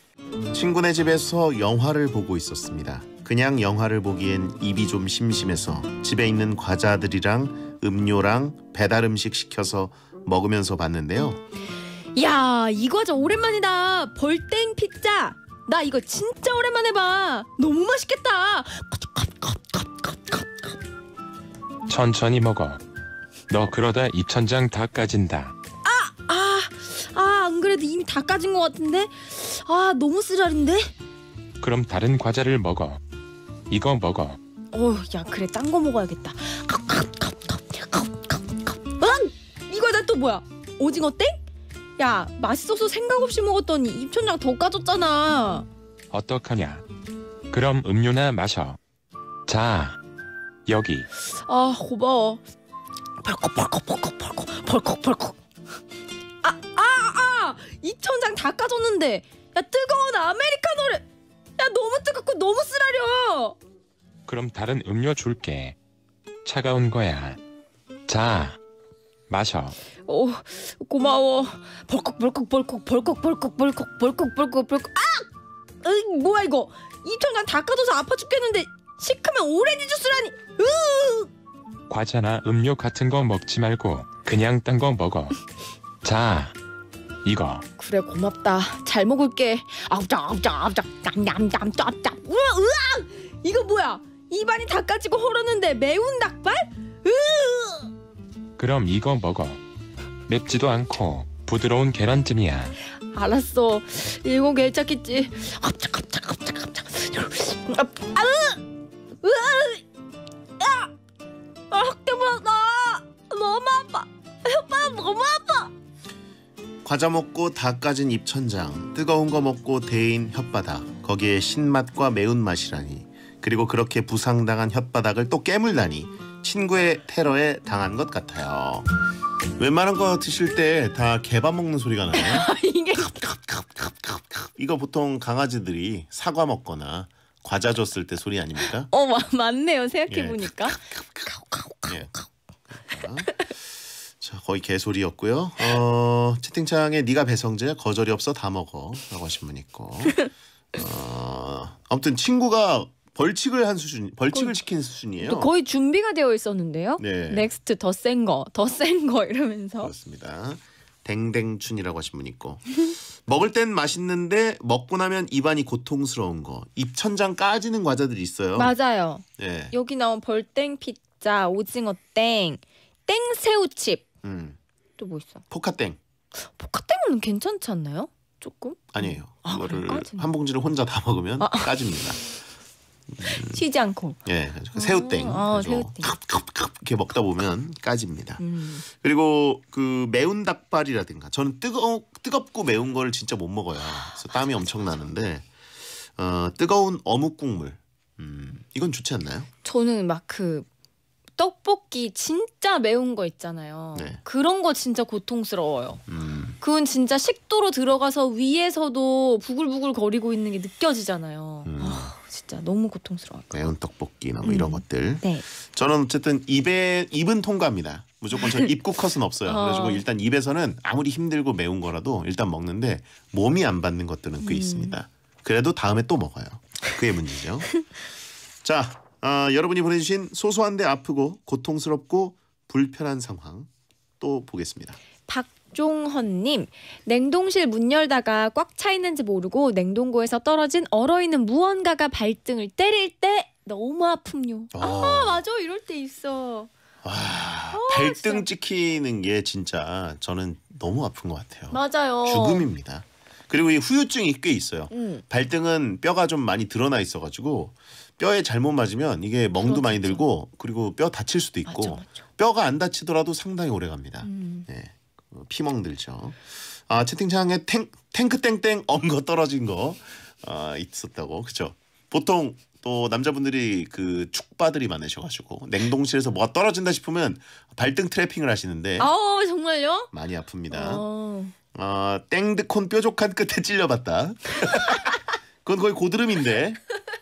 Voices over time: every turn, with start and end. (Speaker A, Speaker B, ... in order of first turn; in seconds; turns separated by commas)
Speaker A: 0.5-11.4, Speaker B: 12.2-20.8, Speaker C: 21.9-22.8, Speaker C: 23.5-25.5, Speaker B: 25.9-30.9, Speaker C: 31.6-33.0, Speaker C: 33.7-34.4, Speaker B: 34.7-41.4, Speaker B: 42.0-45.7, Speaker C: 46.1-46.8, Speaker C: 47.5-48.8, Speaker C: 49.5-50.0, Speaker C: 50.7-51.1, Speaker B: 51.3-52.4, Speaker B: 53.2-55.4, Speaker B: 56.4-61.0, Speaker B: 61.6-63.6, Speaker C: 64.3-65.8, Speaker C: 66.5-67.4, Speaker C: 68.1-68.6, Speaker C: 69.3-69.8, Speaker B: 70.1-75.3, Speaker B: 75.8-81.3, Speaker C: 81.9-85.4, Speaker C: 86.0-86.5, Speaker C: 87.2-87.6, Speaker B: 87.8-97.9, Speaker C: 98.6-99.6, Speaker C: 100.3-102.7, Speaker B: 103.1-108.7, Speaker B: 109.2-109.8, Speaker B: 110.6-110.9, Speaker B: 111.7-115.7, Speaker A: 116.8-128.9, Speaker A: 129.6-138.9, Speaker B: 132.1-133.7, Speaker B: 138.9-142.3, Speaker A: 140.1-141.3, Speaker A: 141.9-142.1, Speaker A: 142.7-143.5, Speaker A: 144.2-155.5, Speaker B: 154.3-154.6, Speaker B: 155.2-159.9, Speaker A: 157.0-157.5, Speaker A: 159.8-168.8, Speaker B: 168.6-174.1, Speaker A: 169.4-169.8, Speaker A: 174.2-174.6, Speaker B: 175.0-175.4, Speaker A: 175.5-176.0, Speaker B: 176.4-180.3, Speaker A: 178.9-182.3, Speaker B: 181.4-182.0, Speaker A: 183.1-183.6, Speaker B: 183.4-184.2, Speaker A: 184.2-195.5, Speaker B: 184.7-186.1, Speaker B: 188.4-188.8, Speaker B: 193.8-195.1, Speaker A: 196.2-199.5, Speaker B: 199.6-200.7, Speaker B: 201.4-206.0, Speaker A: 203.9-204.2, Speaker A: 206.1-206.6, Speaker B: 206.6-213.7, Speaker A: 211.6-212.1, Speaker A: 213.5-227.9, Speaker B: 214.4-215.4, Speaker B: 218.4-218.7, Speaker B: 219.4-220.0, Speaker B: 224.4-225.0, Speaker A: 228.6-233.7, Speaker A: 234.2-235.0, Speaker B: 235.3-246.7, Speaker A: 244.7-245.4, Speaker A: 247.0-279.1, Speaker B: 247.7-248.5, Speaker B: 251.7-252.7, Speaker B: 254.9-255.2, Speaker B: 259.6-260.2, Speaker B: 261.7-262.2, Speaker B: 264.2-264.7, Speaker B: 279.0-280.1, Speaker A: 280.1-281.1, Speaker B: 280.7-281.5, Speaker A: 281.7-286.8